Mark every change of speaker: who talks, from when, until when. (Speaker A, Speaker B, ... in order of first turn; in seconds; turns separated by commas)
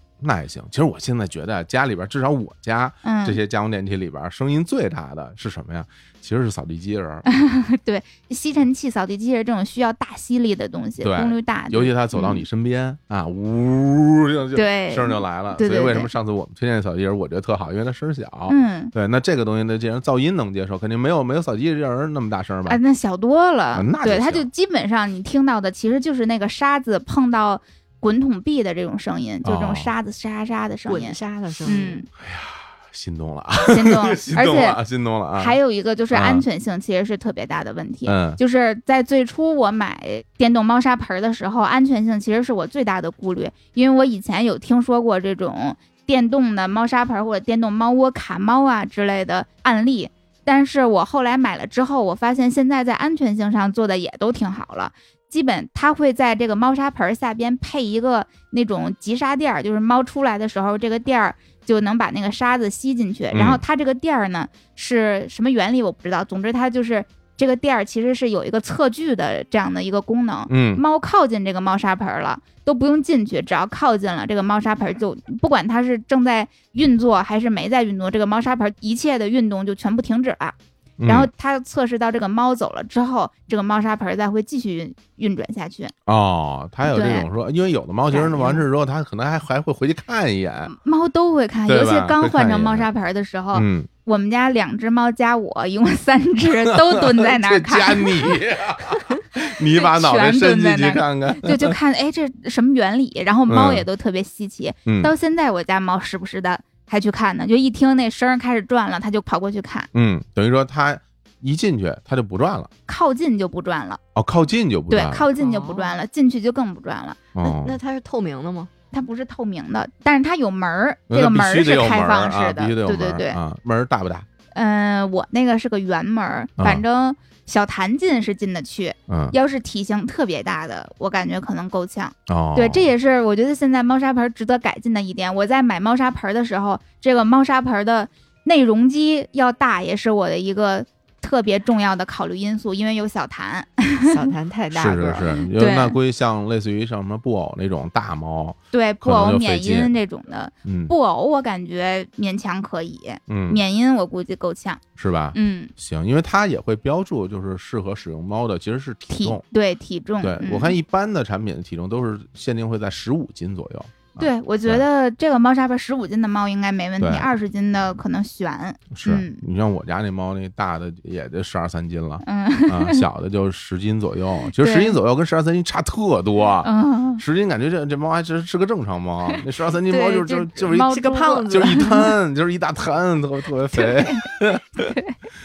Speaker A: 0.2-7.3, Speaker B: 3.0-3.4, Speaker B: 7.3-12.4, Speaker A: 11.0-22.8, Speaker B: 14.6-16.1, Speaker B: 18.5-18.9, Speaker B: 22.7-32.1, Speaker A: 23.7-24.5, Speaker A: 29.4-29.9, Speaker C: 30.9-32.0, Speaker A: 32.2-35.6, Speaker B: 33.7-34.8, Speaker B: 35.4-80.6, Speaker A: 36.1-36.5, Speaker A: 38.1-38.4, Speaker A: 63.3-63.6, Speaker A: 70.5-70.8, Speaker A: 81.0-81.3, Speaker B: 81.1-85.9, Speaker A: 86.1-90.7, Speaker B: 86.8-87.3, Speaker B: 88.1-88.6, Speaker B: 90.7-98.3, Speaker A: 91.7-92.9, Speaker A: 93.5-93.9, Speaker A: 96.4-101.8, Speaker B: 99.7-109.9, Speaker A: 103.5-103.9, Speaker A: 104.9-105.1, Speaker A: 109.9-112.7, Speaker B: 112.9-114.0, Speaker A: 114.2-115.3, Speaker B: 114.9-117.2, Speaker C: 115.4-115.9, Speaker A: 117.3-117.8, Speaker C: 117.4-118.7, Speaker B: 118.9-123.4, Speaker A: 121.1-124.3, Speaker B: 124.5-144.1, Speaker A: 126.6-126.8, Speaker A: 129.1-129.4, Speaker A: 132.3-132.9, Speaker C: 144.0-145.3, Speaker A: 144.7-149.9, Speaker B: 145.6-146.0, Speaker B: 148.7-154.8, Speaker A: 150.6-150.9, Speaker A: 153.3-153.6, Speaker A: 155.0-159.4, Speaker B: 155.3-155.7, Speaker B: 159.1-160.8, Speaker A: 160.2-164.8, Speaker B: 164.2-169.4, Speaker A: 167.0-167.3, Speaker A: 168.9-184.9, Speaker B: 172.2-173.1, Speaker B: 174.6-175.0, Speaker B: 176.6-177.2, Speaker B: 179.9-182.1, Speaker C: 180.9-182.1, Speaker B: 183.8-184.2, Speaker B: 184.9-185.1